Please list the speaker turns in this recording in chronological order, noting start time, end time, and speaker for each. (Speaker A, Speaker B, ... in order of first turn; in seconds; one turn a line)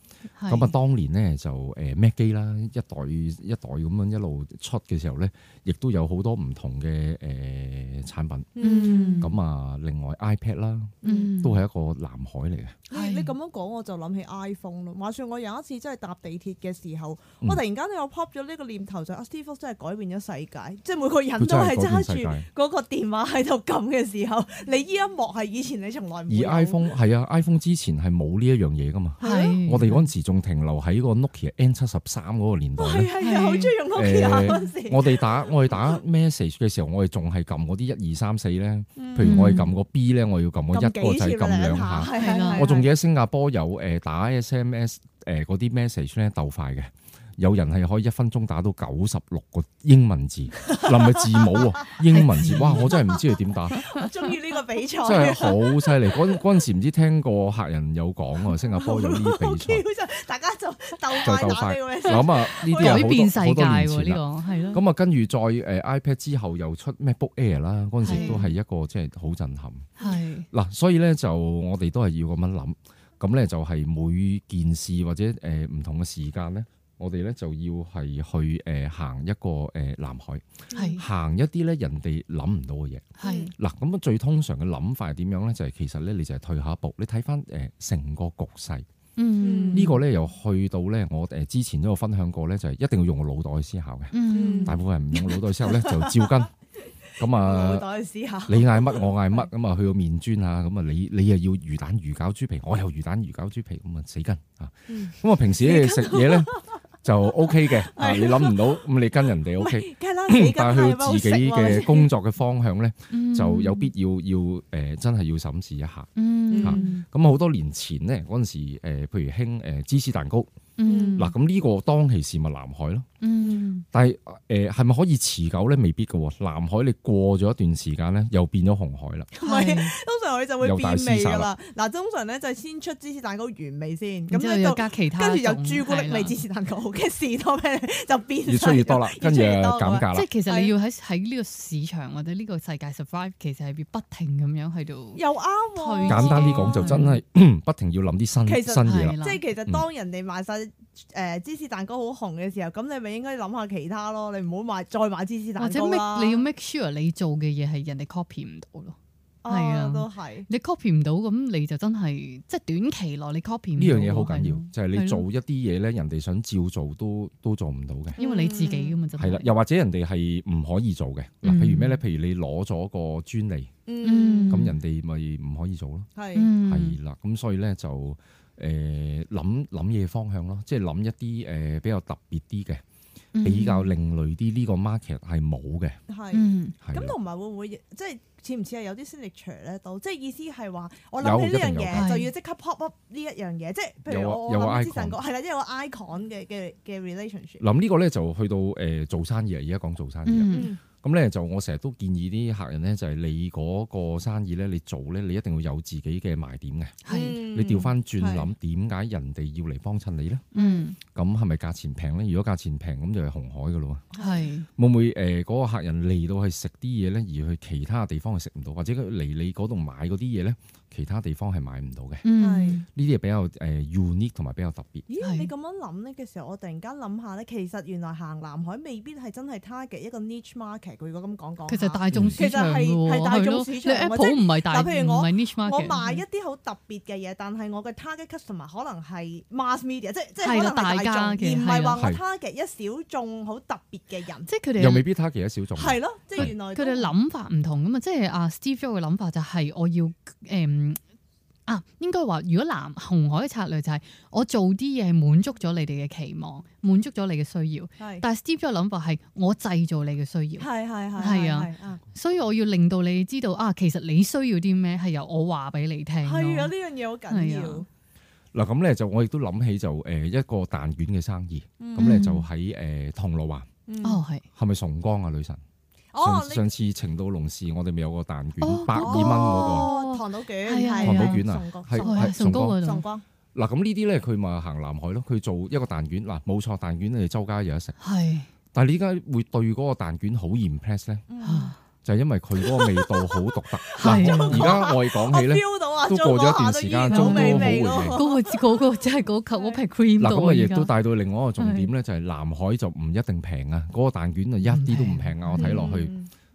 Speaker A: 0.4-0.7
Speaker B: 0.5-8.6
Speaker C: 8.6-9.3
Speaker A: 8.6-9.3
Speaker B: 9.2-12.8
Speaker C: 11.0-11.3
Speaker A: 11.0-11.6
Speaker C: 12.9-26.9
Speaker A: 12.9-13.3
Speaker B: 21.4-22.4
Speaker B: 26.3-33.1
Speaker C: 29.2-29.6
Speaker A: 29.2-30.1
Speaker C: 32.8-36.0
Speaker A: 33.2-34.6
Speaker B: 33.9-53.8
Speaker C: 39.0-39.4
Speaker A: 39.2-39.7
Speaker C: 40.7-42.9
Speaker A: 42.1-42.7
Speaker C: 50.6-51.7
Speaker A: 52.0-53.0
Speaker C: 52.8-56.4
Speaker A: 53.8-54.1
Speaker B: 55.0-59.8
Speaker C: 58.6-63.2
Speaker B: 61.2-69.9
Speaker A: 62.1-64.8
Speaker C: 64.5-64.8
Speaker A: 68.0-68.4
Speaker C: 68.0-68.6
Speaker C: 70.0-70.2
Speaker A: 70.0-70.5
Speaker B: 70.5-88.8
Speaker C: 80.7-81.0
Speaker A: 80.7-81.0
Speaker A: 83.2-83.5
Speaker C: 83.2-83.5
Speaker A: 89.2-90.0
Speaker C: 89.4-90.0
Speaker B: 89.7-96.5
Speaker A: 94.1-94.8
Speaker C: 94.3-99.5
Speaker B: 97.2-97.9
Speaker B: 98.5-120.5
Speaker C: 104.9-108.8
Speaker C: 109.6-112.1
Speaker A: 113.1-113.9
Speaker A: 116.2-117.0
Speaker C: 116.5-116.9
Speaker A: 120.8-121.3
Speaker C: 120.8-121.2
Speaker B: 121.2-123.1
Speaker A: 123.2-123.8
Speaker B: 123.9-129.3
Speaker C: 129.3-140.7
Speaker A: 129.4-129.9
Speaker B: 130.6-131.5
Speaker A: 134.3-136.3
Speaker B: 138.5-140.3
Speaker A: 140.1-145.2
Speaker C: 145.1-147.1
Speaker A: 145.7-147.2
Speaker B: 146.1-149.8
Speaker C: 148.4-156.4
Speaker A: 148.8-149.4
Speaker A: 155.6-158.9
Speaker C: 159.4-160.5
Speaker A: 159.5-165.2
Speaker B: 163.8-168.2
Speaker A: 168.2-169.5
Speaker C: 168.2-169.0
Speaker B: 169.2-173.7
Speaker A: 171.4-172.0
Speaker C: 173.8-174.7
Speaker A: 174.0-174.8
Speaker B: 174.5-176.1
Speaker C: 176.1-176.5
Speaker A: 176.3-177.0
Speaker B: 176.6-182.8
Speaker A: 183.3-183.9
Speaker B: 183.4-186.0
Speaker C: 186.1-197.6
Speaker A: 186.3-186.8
Speaker B: 186.8-187.1
Speaker B: 191.2-192.1
Speaker A: 191.9-192.3
Speaker B: 194.1-195.2
Speaker B: 197.6-210.4
Speaker A: 200.2-200.7
Speaker C: 200.5-200.8
Speaker A: 207.0-207.4
Speaker C: 207.1-208.5
Speaker A: 210.5-211.0
Speaker C: 210.5-210.8
Speaker B: 211.1-214.1
Speaker C: 214.1-214.5
Speaker A: 214.2-214.7
Speaker B: 214.8-222.3
Speaker A: 222.2-222.8
Speaker C: 222.3-222.8
Speaker B: 222.9-225.1
Speaker C: 225.1-244.5
Speaker A: 225.2-225.5
Speaker A: 231.7-236.2
Speaker B: 232.1-232.4
Speaker A: 240.4-242.0
Speaker A: 244.5-245.1
Speaker B: 244.8-246.5
Speaker C: 245.8-247.1
Speaker A: 246.3-251.0
Speaker A: 251.7-266.7
Speaker C: 258.0-258.2
Speaker C: 260.6-262.0
Speaker C: 266.2-267.9
Speaker A: 267.3-267.8
Speaker B: 268.5-273.7
Speaker C: 271.8-272.2
Speaker A: 271.9-272.4
Speaker C: 273.9-274.2
Speaker A: 274.0-274.4
Speaker B: 274.5-275.6
Speaker C: 276.1-276.7
Speaker B: 276.2-279.9
Speaker A: 278.6-281.4
Speaker C: 278.9-283.2
Speaker B: 281.0-282.8
Speaker A: 282.0-283.0
Speaker B: 283.5-287.9
Speaker A: 288.0-288.5
Speaker B: 288.7-291.2
Speaker C: 291.3-291.8
Speaker A: 291.4-291.8
Speaker B: 292.0-298.2
Speaker C: 292.6-299.8
Speaker A: 294.0-294.9
Speaker A: 297.1-300.9
Speaker B: 300.2-306.1
Speaker A: 301.6-301.9
Speaker A: 304.6-305.8
Speaker C: 305.6-306.3